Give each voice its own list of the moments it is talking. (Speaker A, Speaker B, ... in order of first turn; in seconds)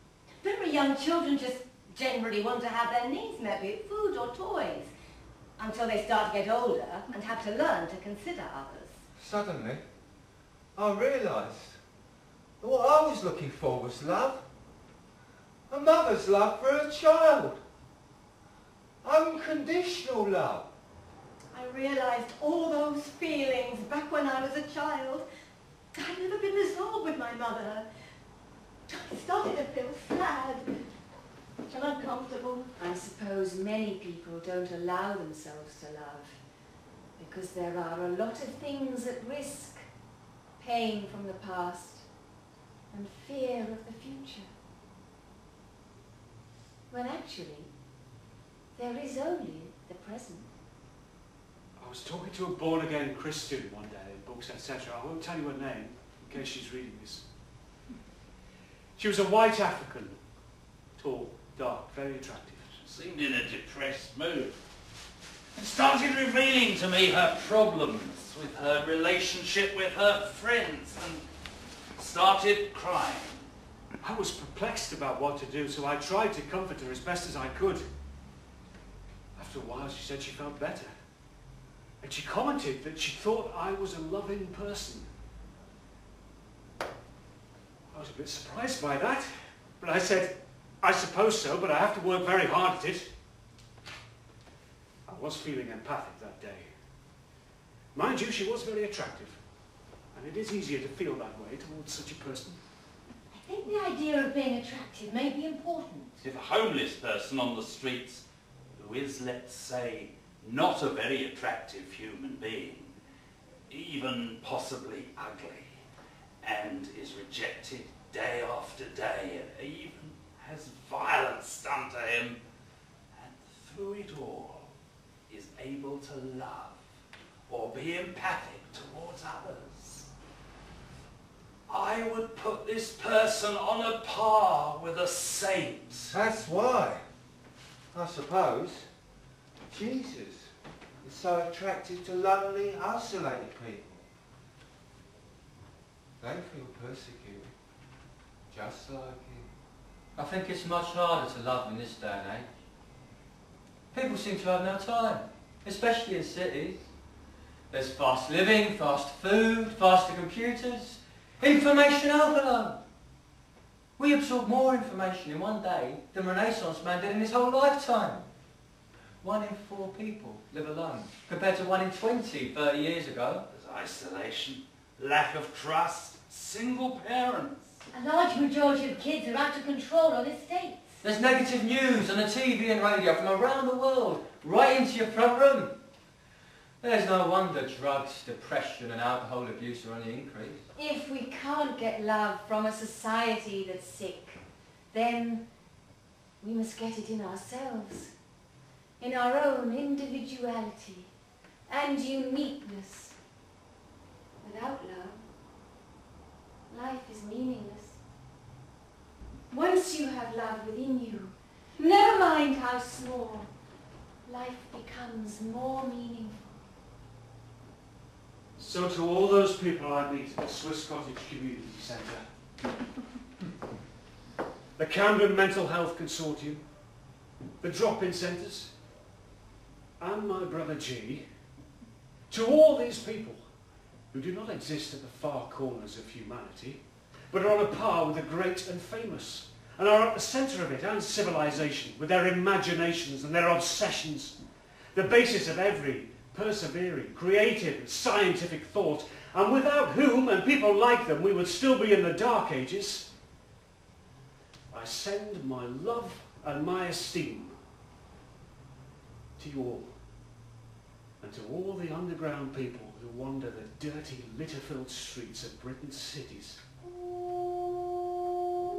Speaker A: 0.4-4.9, 5.6-8.9, 21.5-25.2, 25.9-27.9, 28.9-30.6, 31.7-32.7, 103.3-106.2, 177.9-180.9
Speaker B: 9.2-9.8, 10.8-11.8, 12.6-14.4, 15.7-17.6, 19.0-20.7, 136.1-137.0, 137.9-138.9, 139.7-140.5, 141.0-144.0, 146.2-147.5, 148.5-149.5
Speaker C: 32.8-36.4, 37.2-39.8, 40.6-42.0, 42.9-44.5, 46.9-47.7, 48.7-50.5, 190.7-194.4, 194.9-195.4, 196.4-198.1, 199.0-201.1, 201.7-203.2, 204.4-205.2, 206.7-208.0, 209.5-213.5, 214.2-216.4
Speaker D: 51.8-57.2, 59.0-60.2, 61.0-62.8, 74.0-77.8, 79.3-80.9, 82.0-85.1, 87.9-93.1, 95.1-96.7, 97.9-99.4, 100.1-102.6, 218.6-222.2, 224.8-226.6, 227.6-228.7, 230.0-231.2, 232.3-233.4, 234.1-236.8, 237.3-244.4, 244.9-253.1, 254.7-257.6, 259.4-259.9, 261.2-266.6
Speaker E: 62.8-64.5, 65.6-71.2, 72.0-73.4, 106.2-108.2, 108.8-112.9, 113.7-115.7, 116.4-122.4, 123.1-124.7, 125.3-126.8, 127.5-130.1, 131.7-136.2, 173.5-177.7
Speaker F: 150.2-152.5, 153.9-156.9, 157.7-162.8, 164.0-168.3, 169.2-173.4, 181.0-185.7, 186.8-190.6